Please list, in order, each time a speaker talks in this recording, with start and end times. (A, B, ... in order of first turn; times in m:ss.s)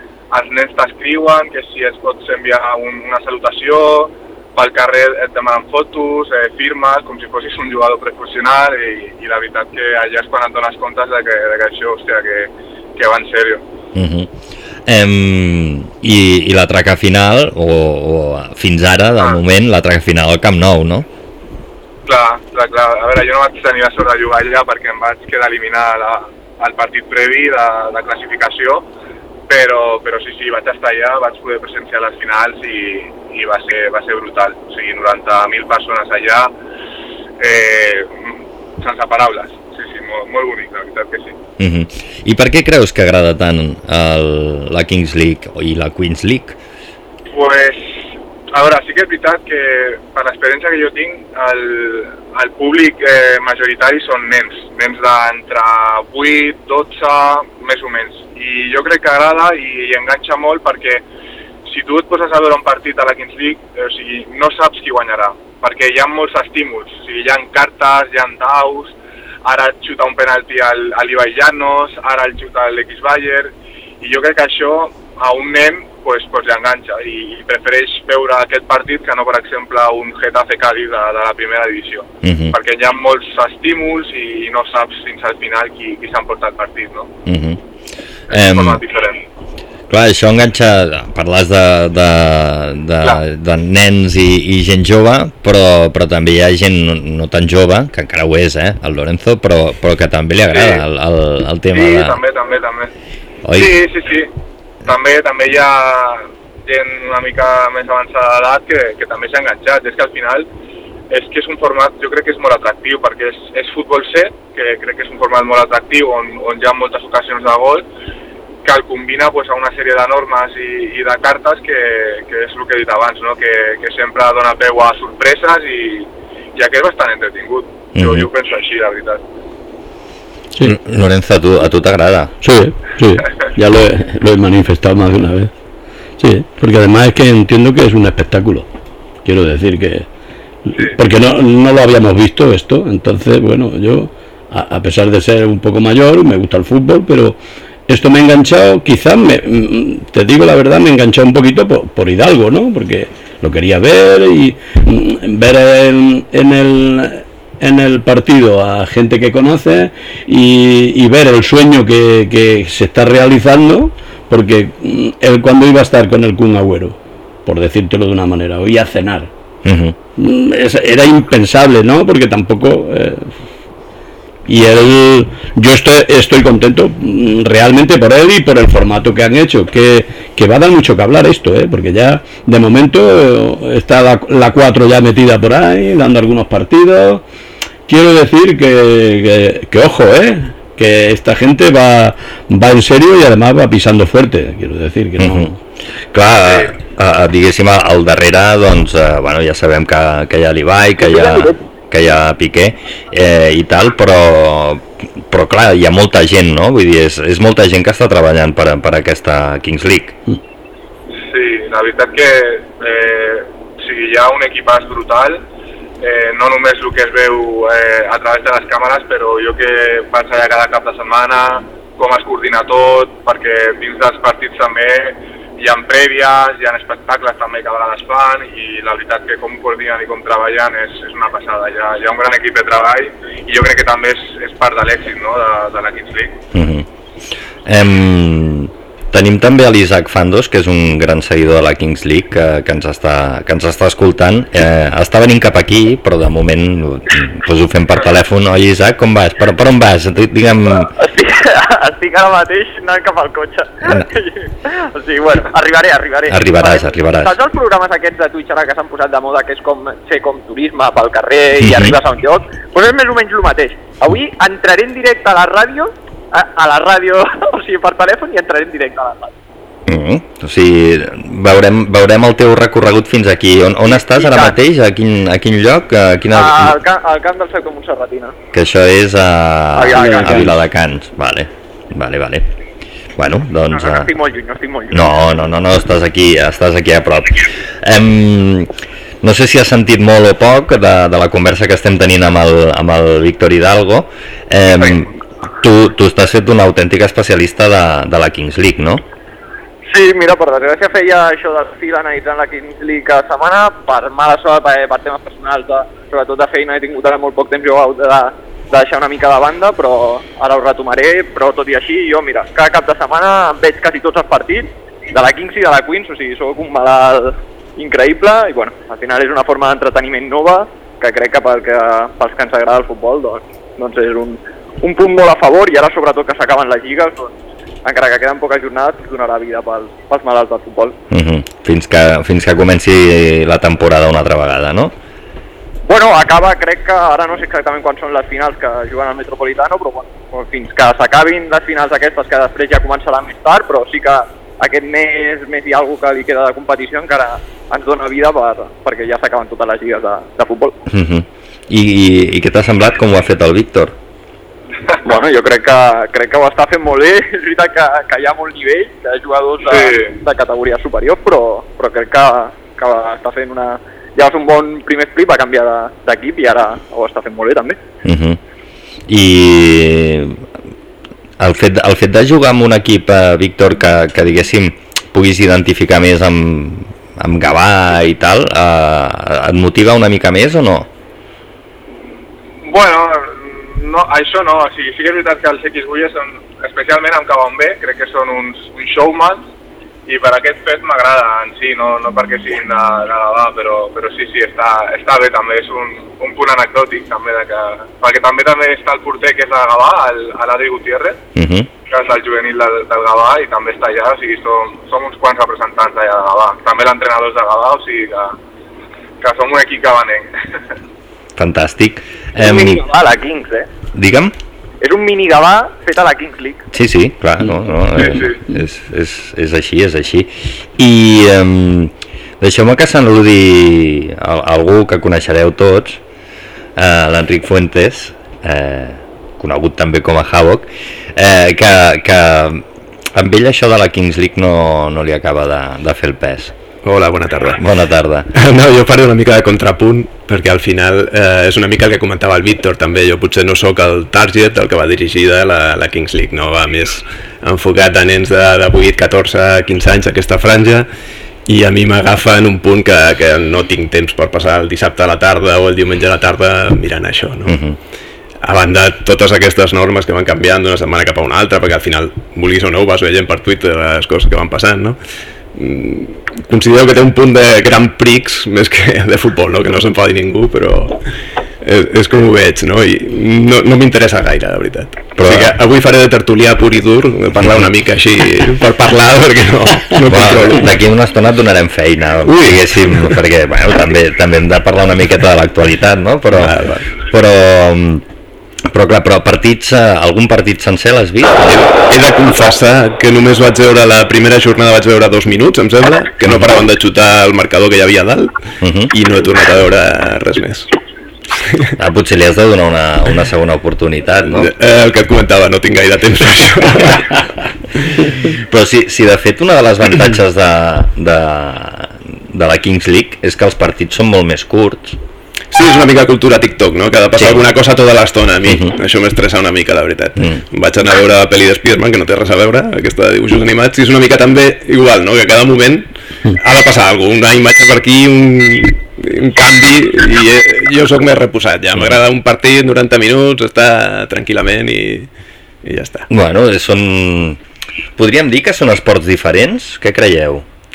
0:00.3-0:13.6 A
0:14.0-0:14.3 B
0:14.9-0:21.1 B
0:22.1-0:28.8 A
0:29.5-0:36.5 A
0:37.4-0:38.2 A
0:38.8-0:41.4 A
0:41.6-0:46.6 B
0:47.3-0:47.9 A
0:48.5-1:01.0 A
1:01.7-1:27.1 A
1:22.2-1:22.6 B
1:27.3-1:27.6 B
1:28.3-1:28.8 B
1:28.3-1:29.2 A
1:29.9-1:42.2 B
1:40.5-1:40.8 A
1:41.7-1:42.9 A
1:43.4-1:43.8 B
1:43.6-1:44.3 A
1:44.8-1:50.5 A
1:51.1-1:57.8 A
1:58.6-2:09.2 A
2:08.0-2:08.3 B
2:10.6-2:12.4 B
2:12.4-2:15.5 C
2:16.2-2:18.7 C
2:19.2-2:20.1 C
2:20.7-2:49.3 C
2:49.6-2:50.0 B
2:50.2-2:53.3 C
2:54.5-3:07.2 C
3:07.9-3:15.6 C
3:15.2-3:15.5 B
3:16.1-3:30.2 B
3:21.0-3:21.6 D
3:31.3-3:35.4 A
3:36.0-3:56.4 A
3:56.5-3:56.9 B
3:57.7-4:10.9 B
4:11.0-4:29.3 D
4:16.3-4:17.4 B
4:21.6-4:22.0 B
4:29.9-4:36.8 B
4:33.9-4:34.5 D
4:36.3-4:38.4 D
4:38.5-4:42.5 B
4:39.8-4:40.5 D
4:40.0-4:40.6 C
4:43.2-4:44.1 B
4:43.7-4:45.2 D
4:44.9-4:48.7 B
4:49.2-4:59.0 B
4:59.9-5:31.0 D
5:31.1-5:34.9 B
5:35.9-5:50.8 D
5:50.9-5:54.0 B
5:55.0-6:07.8 D
5:59.7-6:00.1 A
6:08.0-6:08.4 B
6:09.1-6:10.4 B
6:11.4-6:20.9 B
6:22.6-6:29.5 A
6:30.1-6:41.2 A
6:41.4-6:41.7 B
6:41.9-6:48.4 A
6:49.2-6:50.3 A
6:51.4-6:52.8 B
6:52.4-6:53.7 D
6:53.9-6:54.3 B
6:54.8-6:56.6 D
6:56.7-7:06.0 B
6:58.0-6:58.4 A
7:06.8-7:16.5 B
7:16.8-7:17.6 E
7:17.6-7:18.3 B
7:18.3-7:30.9 E
7:31.5-7:37.6 E
7:37.5-7:37.8 B
7:38.4-7:45.0 E
7:45.5-7:51.0 E
7:51.6-8:00.7 E
7:55.2-7:55.6 B
8:00.1-8:08.0 B
8:02.3-8:03.2 E
8:06.3-8:06.9 E
8:08.7-8:11.6 B
8:11.5-8:18.3 E
8:18.6-8:18.9 B
8:18.9-8:20.7 E
8:21.8-8:24.5 B
8:24.4-8:27.2 E
8:28.5-8:35.0 B
8:35.5-8:55.1 E
8:37.2-8:37.5 B
8:38.5-8:38.7 B
8:55.6-8:56.1 E
8:56.1-8:57.4 B
8:58.0-9:00.5 B